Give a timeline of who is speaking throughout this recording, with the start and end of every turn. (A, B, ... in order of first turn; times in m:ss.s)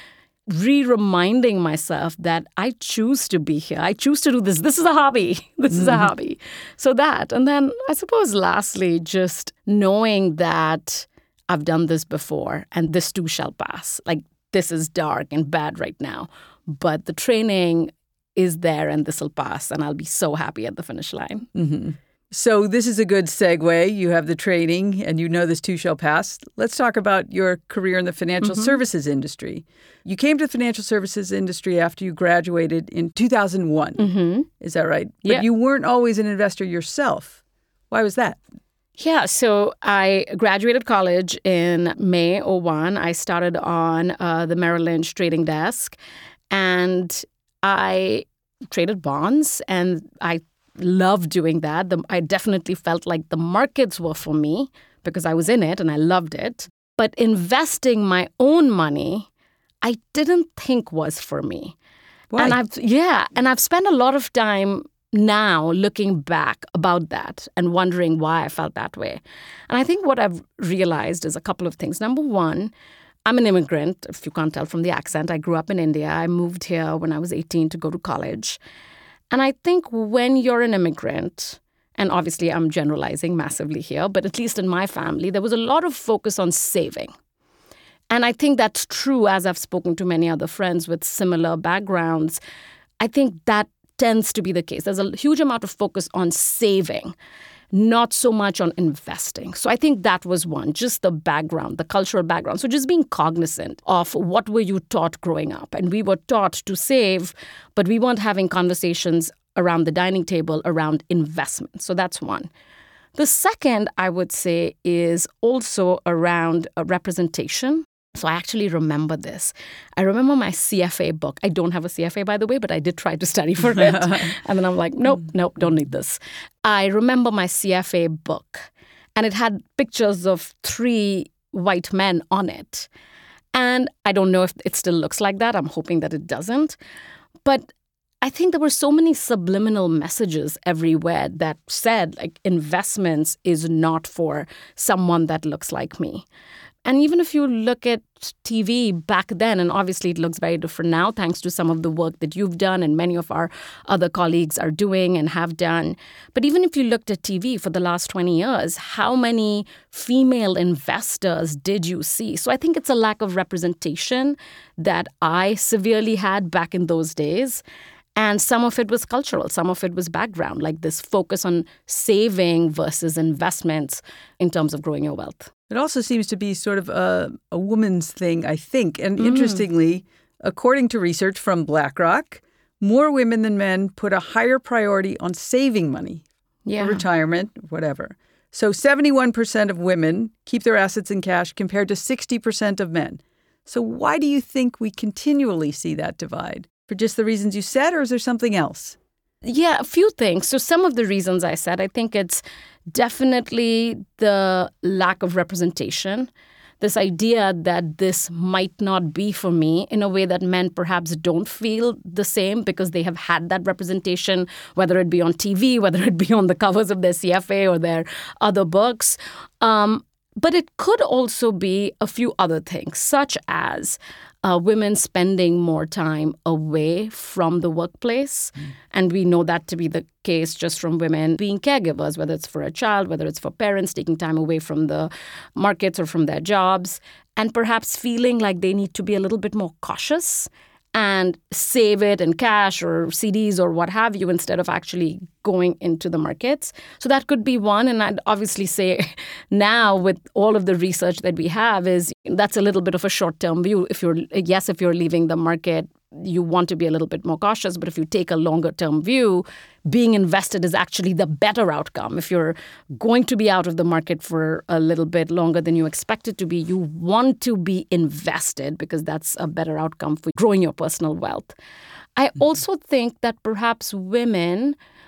0:00.5-0:21.5 A
0:05.7-0:06.1 B
0:21.5-0:34.0 B
0:28.4-0:28.8 A
0:34.0-0:34.5 A
0:34.6-0:37.4 B
0:37.9-0:38.4 B
0:39.0-0:46.0 A
0:46.5-0:59.3 A
0:59.8-1:01.8 A
1:02.3-1:02.6 B
1:02.4-1:12.7 A
1:13.3-1:18.6 A
1:19.3-1:27.1 A
1:28.1-1:32.4 A
1:33.0-1:37.2 A
1:37.7-1:52.5 A
1:53.2-2:12.9 A
2:03.8-2:04.3 B
2:13.5-2:16.8 A
2:18.2-2:26.2 A
2:26.8-2:47.6 A
2:48.2-2:55.5 A
2:55.7-3:06.2 B
2:59.2-2:59.6 A
3:06.7-3:07.0 A
3:06.8-3:19.0 B
3:19.4-3:26.3 A
3:26.8-4:31.5 A
4:32.2-4:34.8 A